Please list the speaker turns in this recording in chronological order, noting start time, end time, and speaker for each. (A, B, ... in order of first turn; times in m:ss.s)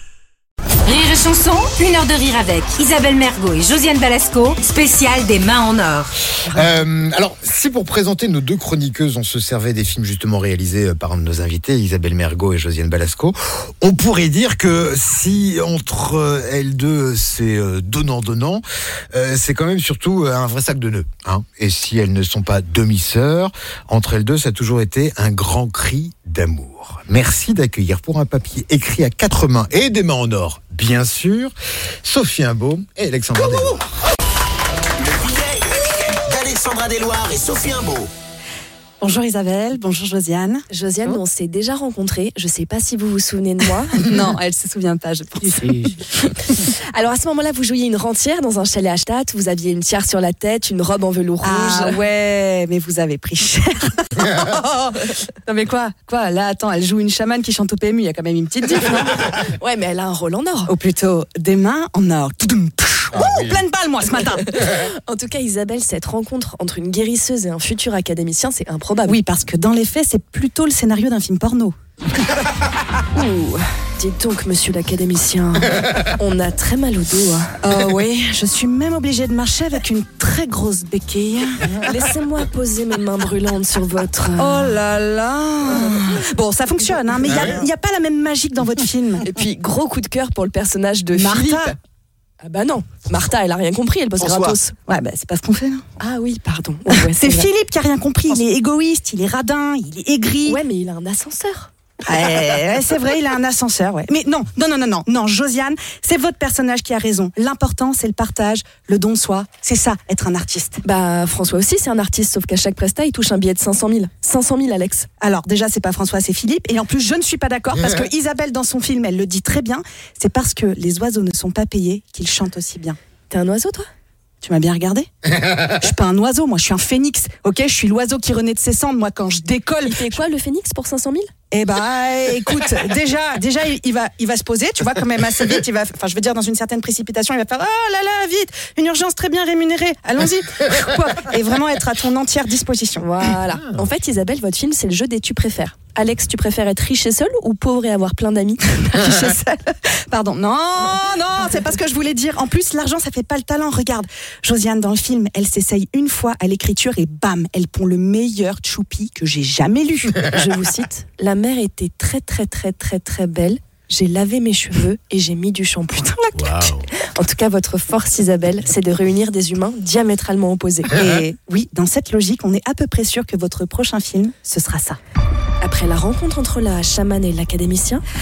0:00.8-0:06.2 A
0:06.5-0:33.8 B
0:35.0-0:38.1 C
0:39.0-0:40.7 D
0:40.7-0:44.0 E
0:44.0-0:46.1 D
0:46.5-0:52.0 E
0:51.4-0:59.4 D
0:59.4-1:00.8 E
1:00.7-1:04.5 D
1:04.1-1:09.2 E
1:09.1-1:11.7 D
1:13.1-1:17.6 E
1:17.6-1:22.1 D
1:21.8-1:24.8 E
1:24.4-1:29.2 D
1:25.7-1:26.2 E
1:29.2-1:31.8 E
1:31.2-1:31.8 D
1:32.4-1:34.8 E
1:34.2-1:34.6 C
1:34.9-1:35.9 D
1:36.0-1:37.5 E
1:36.9-1:40.6 D
1:40.4-1:41.7 E
1:42.0-1:50.8 D
1:50.8-1:55.1 E
1:55.2-2:03.0 D
2:03.3-2:03.9 E
2:04.4-2:10.2 D
2:09.8-2:11.3 E
2:11.5-2:23.4 D
2:23.0-2:28.9 E
2:28.9-2:40.3 D
2:40.2-2:51.0 E
2:50.9-2:55.0 D
2:55.6-2:58.0 E